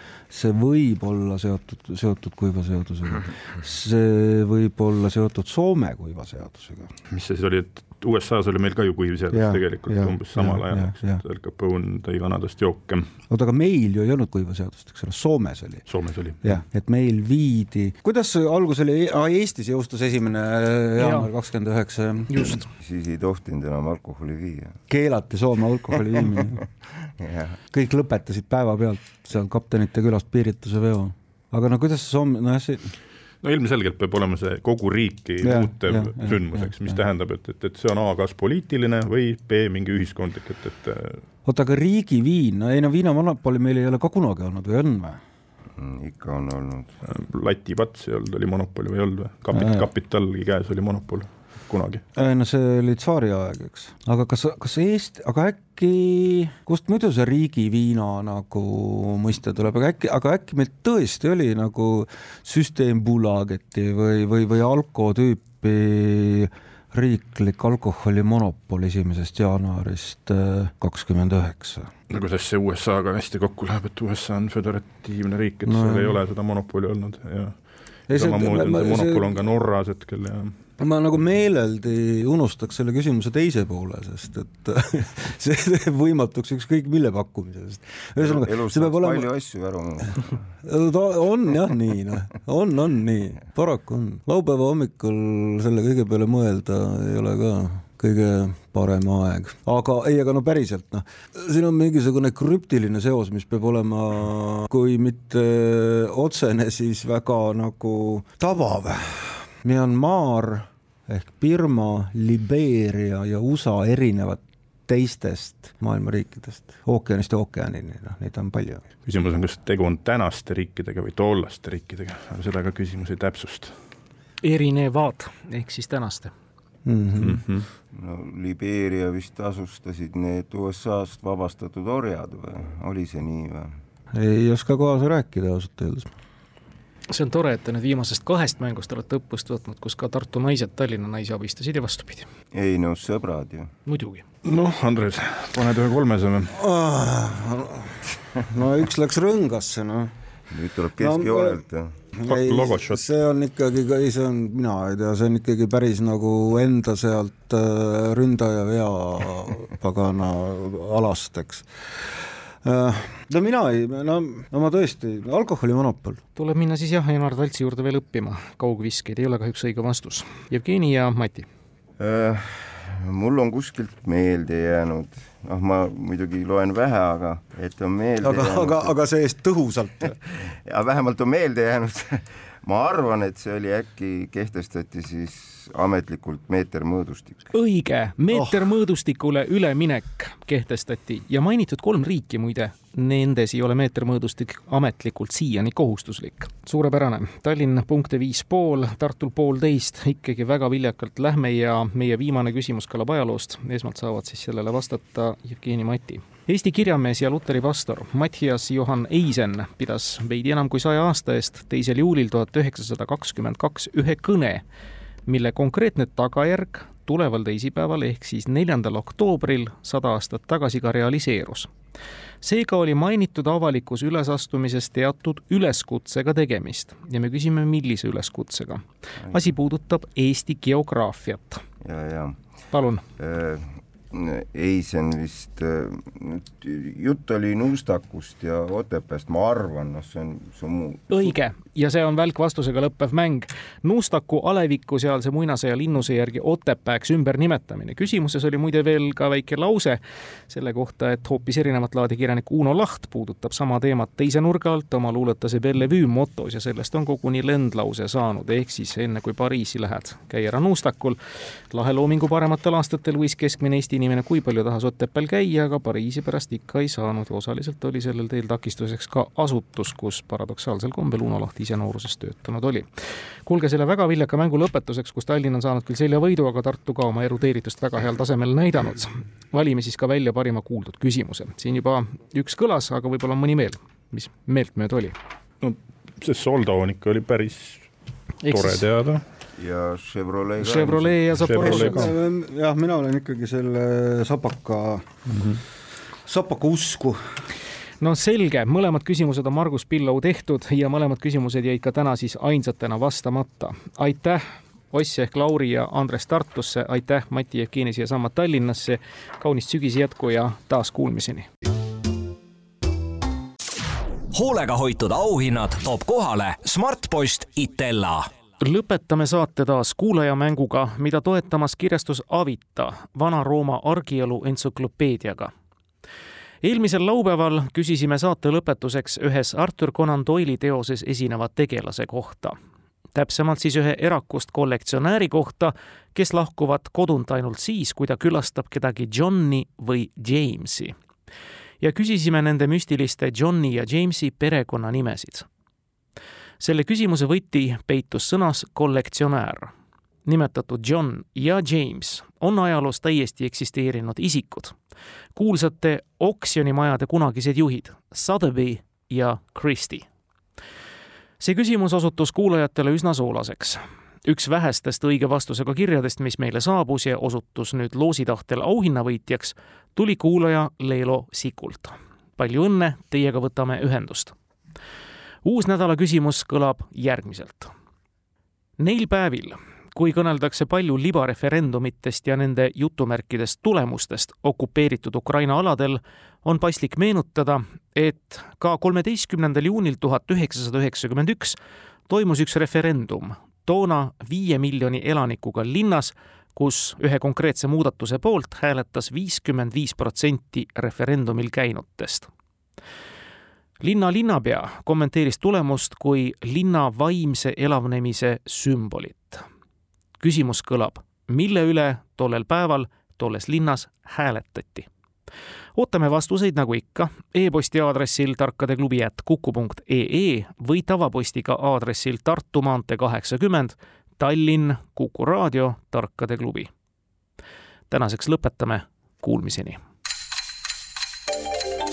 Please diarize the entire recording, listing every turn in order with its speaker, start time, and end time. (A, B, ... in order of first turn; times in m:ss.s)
0:00.3-0:06.9 A
0:07.1-0:13.1 B
0:09.3-0:11.2 A
0:13.3-0:15.8 A
0:15.9-0:16.6 B
0:16.4-0:22.6 A
0:21.0-0:21.3 C
0:22.3-0:22.7 C
0:22.8-0:24.8 D
0:24.9-0:26.6 A
0:27.2-0:27.6 D
0:27.7-0:33.0 A
0:33.4-0:41.2 B
0:35.4-0:37.0 A
0:41.4-0:45.2 A
0:45.8-0:46.9 D
0:47.0-0:52.0 B
0:49.5-0:49.9 A
0:52.2-1:11.9 A
1:12.1-1:20.6 B
1:15.6-1:16.2 A
1:18.1-1:19.4 A
1:20.8-1:29.3 A
1:28.2-1:30.4 D
1:30.6-1:58.8 A
1:59.0-2:03.8 B
2:04.4-2:06.3 C
2:06.8-2:07.4 A
2:07.2-2:07.7 B
2:07.9-2:13.7 D
2:14.1-2:16.1 A
2:17.1-2:22.3 C
2:22.5-2:23.7 D
2:23.9-2:24.2 C
2:24.4-2:26.5 B
2:26.5-2:30.1 A
2:30.5-2:32.0 D
2:31.0-2:31.6 A
2:32.1-2:42.1 A
2:32.3-2:33.0 B
2:42.6-2:46.2 A
2:46.4-2:51.5 C
2:52.0-2:58.9 D
2:58.2-3:00.2 A
3:00.4-3:07.5 D
3:07.5-3:34.6 C
3:08.3-3:08.6 A
3:35.3-3:41.7 C
3:42.4-3:51.6 C
3:51.8-3:52.4 D
3:52.7-3:53.0 C
3:53.2-4:01.3 D
4:01.1-4:21.2 C
4:21.7-4:32.9 C
4:33.5-4:45.2 C
4:45.6-4:47.9 B
4:48.4-4:48.8 C
4:48.5-4:49.2 B
4:49.6-4:51.2 D
4:50.6-4:52.1 C
4:51.4-4:52.2 B
4:51.5-4:55.2 A
4:55.3-4:55.6 B
4:56.2-4:57.2 A
4:58.0-5:11.5 C
5:14.3-5:18.3 E
5:18.6-5:25.5 C
5:26.6-5:32.6 C
5:33.1-5:41.0 C
5:41.8-5:45.5 C
5:46.6-5:49.7 C
5:50.3-5:54.8 C
5:55.4-6:00.1 C
6:01.4-6:14.3 C
6:15.4-6:17.7 C
6:18.8-6:31.6 C
6:32.1-6:42.3 C
6:43.8-6:49.4 C
6:50.2-6:54.9 C
6:55.8-7:06.7 C
7:07.9-7:09.8 C